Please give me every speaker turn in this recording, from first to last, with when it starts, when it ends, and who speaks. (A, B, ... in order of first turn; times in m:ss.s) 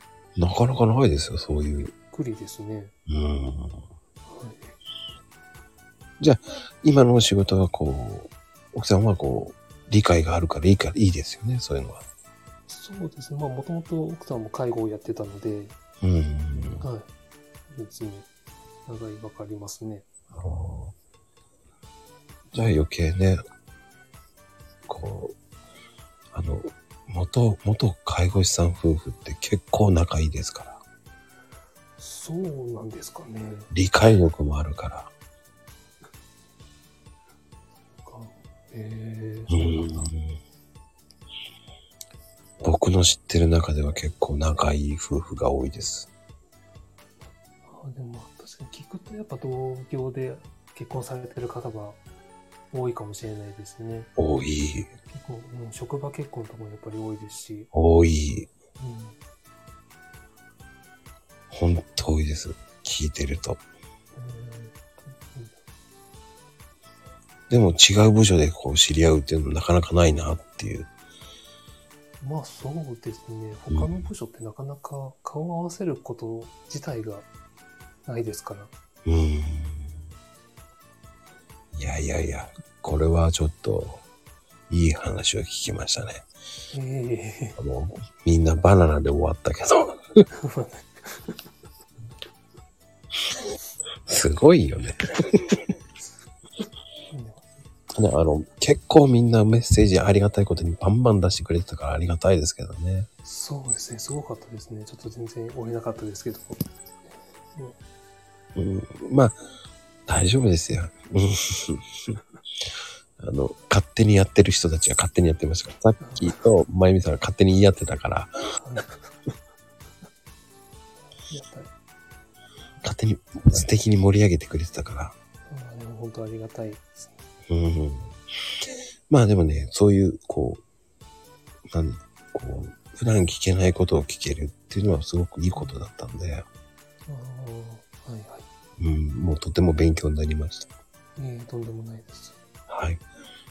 0:00.4-0:01.9 A
0:02.1-0:02.9 B
0:03.1-0:03.8 A
0:04.3-0:04.8 B
0:06.2-0:12.0 A
0:12.7-0:15.8 B
0:16.0-0:16.8 A
0:16.8-0:17.1 B
0:17.7-0:18.3 B
0:18.9-0:20.1 B
0:20.3-0:21.0 A
0:22.5-0:23.4 A
0:24.9-0:25.4 A
0:26.3-0:30.8 A
0:32.0-0:33.7 B
0:33.7-0:35.1 A
0:38.0-0:40.0 B
0:39.5-0:40.4 A
0:42.6-0:46.1 A
0:47.6-0:52.0 B
0:52.7-0:54.1 B
0:54.2-0:54.9 A
0:55.1-0:57.7 B
0:57.7-0:58.5 A
0:58.8-0:59.2 B
1:01.5-1:03.6 A
1:04.2-1:05.6 B
1:07.5-1:10.9 A
1:12.2-1:17.3 B
1:13.7-1:14.1 A
1:18.1-1:18.7 B
1:19.1-1:19.9 A
1:21.7-1:24.0 A
1:24.7-1:26.3 A
1:26.7-1:27.6 B
1:27.6-1:30.2 A
1:30.3-1:31.4 B
1:34.1-1:35.5 A
1:37.1-1:37.5 B
1:38.0-1:43.1 A
1:43.2-1:47.8 B
1:48.6-1:49.4 A
1:50.1-1:52.2 A
1:53.2-1:58.3 A
1:56.0-1:56.4 B
1:58.6-1:59.1 B
2:01.3-2:01.7 B
2:02.8-2:05.2 A
2:05.5-2:07.2 B
2:07.5-2:08.2 A
2:09.1-2:10.6 A
2:11.7-2:16.4 A
2:15.6-2:15.8 B
2:17.1-2:18.5 B
2:18.8-2:20.7 A
2:21.2-2:22.4 B
2:22.7-2:23.0 A